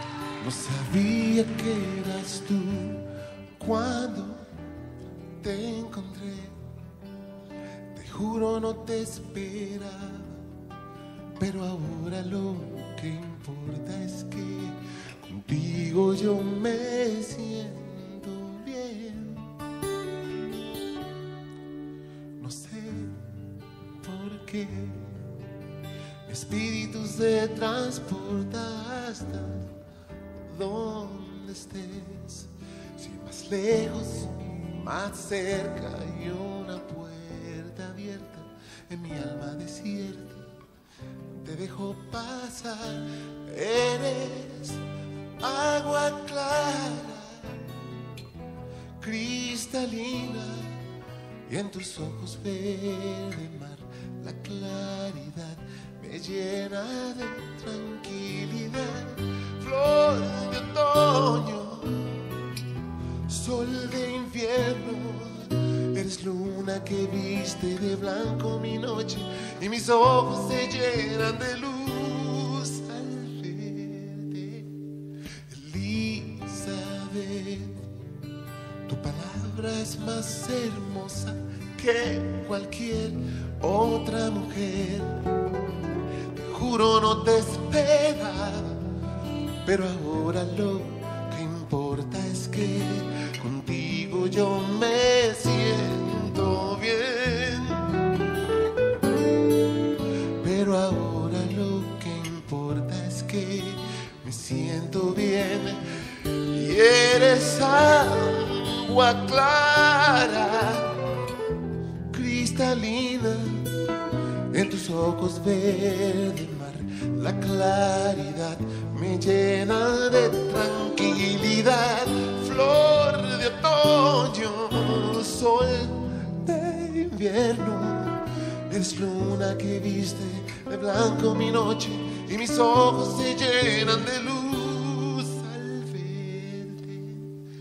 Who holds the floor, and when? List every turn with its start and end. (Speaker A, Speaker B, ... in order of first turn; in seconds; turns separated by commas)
Speaker A: 0.4-4.5, Speaker A: 5.4-6.7, Speaker A: 7.9-10.5, Speaker A: 11.3-19.5, Speaker A: 22.4-25.3, Speaker A: 26.2-29.7, Speaker A: 30.4-40.5, Speaker A: 41.3-47.8, Speaker A: 49.0-50.9, Speaker A: 51.4-62.5, Speaker A: 63.2-77.9, Speaker A: 78.8-85.4, Speaker A: 86.2-89.0, Speaker A: 89.6-98.0, Speaker A: 100.3-111.0, Speaker A: 112.1-113.9, Speaker A: 114.5-137.3